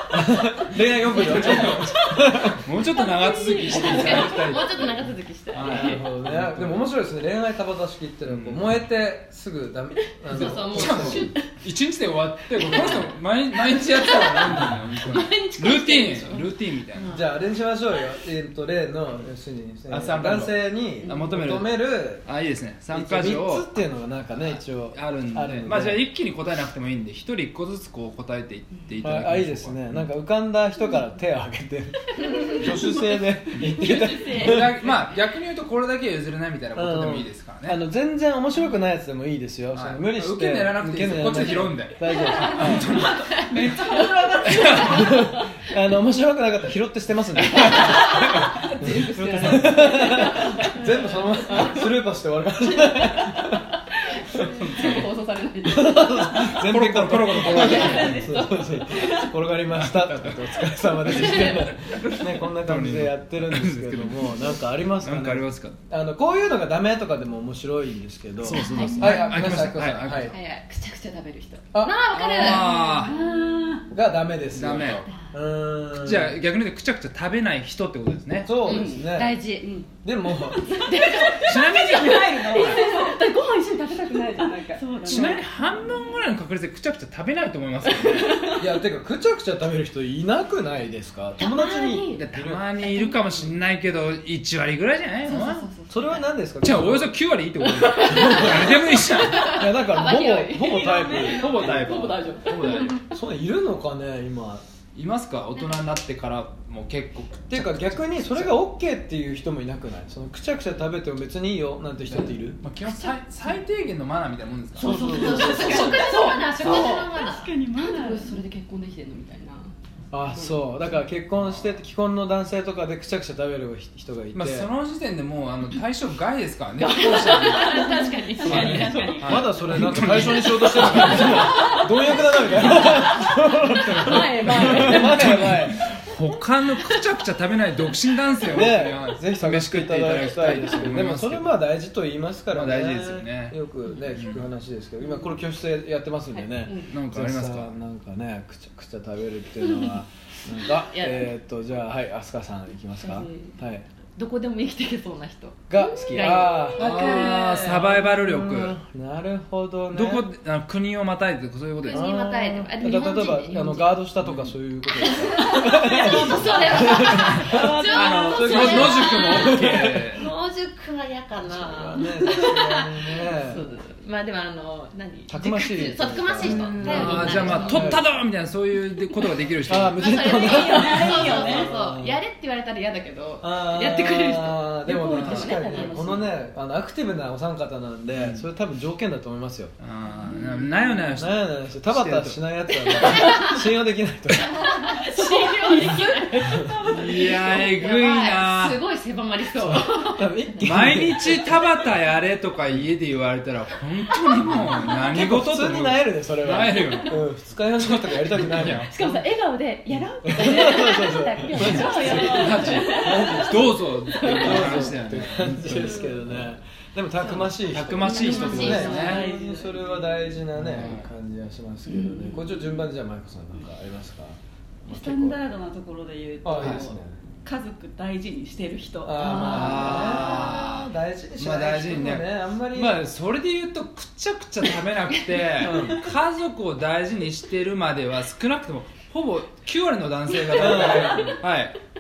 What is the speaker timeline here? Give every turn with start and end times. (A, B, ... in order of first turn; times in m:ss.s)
0:00.1-0:02.6 A
0:01.1-0:06.9 B
0:02.9-0:06.1 C
0:03.3-0:04.3 D
0:05.6-0:11.4 A
0:08.3-0:08.7 B
0:10.3-0:11.5 C
0:10.3-0:17.1 B
0:12.6-0:17.4 C
0:17.1-0:22.2 A
0:19.9-0:23.7 B
0:21.0-0:21.3 D
0:22.9-0:26.0 A
0:24.4-0:29.8 B
0:29.0-0:34.8 A
0:33.6-0:37.8 B
0:33.6-0:34.3 E
0:33.8-0:34.5 D
0:36.8-0:43.0 A
0:39.8-0:43.4 B
0:42.3-0:42.6 D
0:43.0-0:45.2 E
0:43.2-0:45.6 D
0:44.4-0:45.0 B
0:44.8-0:53.7 A
0:47.4-0:47.9 B
0:47.6-0:51.8 D
0:49.1-0:50.0 B
0:52.8-0:56.6 D
0:54.4-0:55.1 B
0:55.6-1:10.3 A
0:56.5-0:58.4 B
0:57.4-0:59.1 D
0:57.5-0:59.3 E
0:59.7-1:00.4 B
1:01.0-1:04.5 B
1:05.0-1:05.8 B
1:08.4-1:10.3 B
1:08.6-1:12.9 C
1:08.6-1:09.3 D
1:11.7-1:12.0 A
1:12.1-1:13.2 B
1:12.4-1:13.9 D
1:12.9-1:13.9 E
1:13.9-1:16.4 A
1:14.5-1:15.0 B
1:16.0-1:18.6 B
1:18.4-1:19.4 A
1:18.6-1:19.8 C
1:18.6-1:19.0 D
1:20.0-1:20.9 A
1:20.6-1:25.8 D
1:21.0-1:25.8 E
1:21.4-1:22.9 B
1:25.0-1:28.5 B
1:27.9-1:28.8 D
1:28.6-1:32.6 A
1:31.4-1:32.2 D
1:32.1-1:35.8 B
1:35.2-1:36.2 D
1:35.9-1:37.2 A
1:36.6-1:39.7 B
1:37.8-1:43.0 D
1:38.0-1:38.7 A
1:39.4-1:42.0 A
1:40.6-1:42.1 E
1:41.2-1:43.0 B
1:43.1-1:44.6 A
1:44.9-1:48.6 B
1:47.5-1:52.6 A
1:52.1-1:55.0 B
1:54.8-1:56.0 A
1:54.8-1:57.1 D
1:54.8-1:57.5 C
1:54.8-1:58.4 E
1:57.8-1:59.7 D
2:00.1-2:04.7 A
2:00.4-2:00.7 D
2:01.4-2:01.7 B
2:04.3-2:07.9 B
2:06.8-2:09.1 D
2:06.8-2:09.0 C
2:08.3-2:10.0 E
2:08.4-2:15.8 A
2:08.5-2:21.5 B
2:10.6-2:13.0 D
2:14.0-2:15.7 D
2:18.5-2:33.9 A
2:22.5-2:24.5 B
2:26.4-2:26.8 D
2:26.8-2:27.8 B
2:30.9-2:31.3 C
2:33.0-2:33.5 C
2:34.2-2:37.8 C
2:35.7-2:40.3 A
2:35.8-2:37.4 D
2:36.8-2:38.8 B
2:39.9-2:42.1 B
2:41.9-2:44.1 C
2:41.9-2:47.8 A
2:44.2-2:44.5 B
2:45.0-2:58.0 C
2:46.1-2:50.3 B
2:46.5-2:49.3 E
2:48.3-2:50.1 A
2:51.5-2:53.6 A
2:55.3-2:58.1 A
2:56.4-2:57.4 E
2:56.4-2:57.8 D
2:56.7-3:00.1 B
2:59.7-3:02.2 A
2:59.9-3:06.3 C
3:00.2-3:01.7 E
3:03.4-3:09.7 A
3:04.9-3:06.3 D
3:05.0-3:05.6 B
3:08.2-3:08.4 B
3:09.8-3:13.3 B
3:11.2-3:14.9 A
3:14.7-3:20.5 C
3:14.8-3:16.8 D
3:16.5-3:17.8 E
3:16.8-3:18.8 B
3:19.6-3:21.6 A
3:20.6-3:27.3 B
3:25.1-3:29.2 A
3:27.8-3:29.2 B
3:28.9-3:34.9 D
3:30.2-3:45.4 A
3:31.5-3:36.3 B
3:31.6-3:33.2 E
3:35.7-3:36.2 D
3:37.5-3:39.3 B
3:38.0-3:39.3 D
3:38.1-3:39.0 C
3:38.2-3:40.5 E
3:40.6-3:41.1 B
3:41.9-3:42.4 D
3:42.4-3:42.6 E
3:44.9-3:49.9 E
3:46.4-3:47.2 A
3:46.6-3:46.9 B
3:49.0-3:53.0 A
3:49.2-3:50.2 D
3:49.4-4:01.8 B
3:55.6-3:56.0 A
4:00.5-4:01.4 A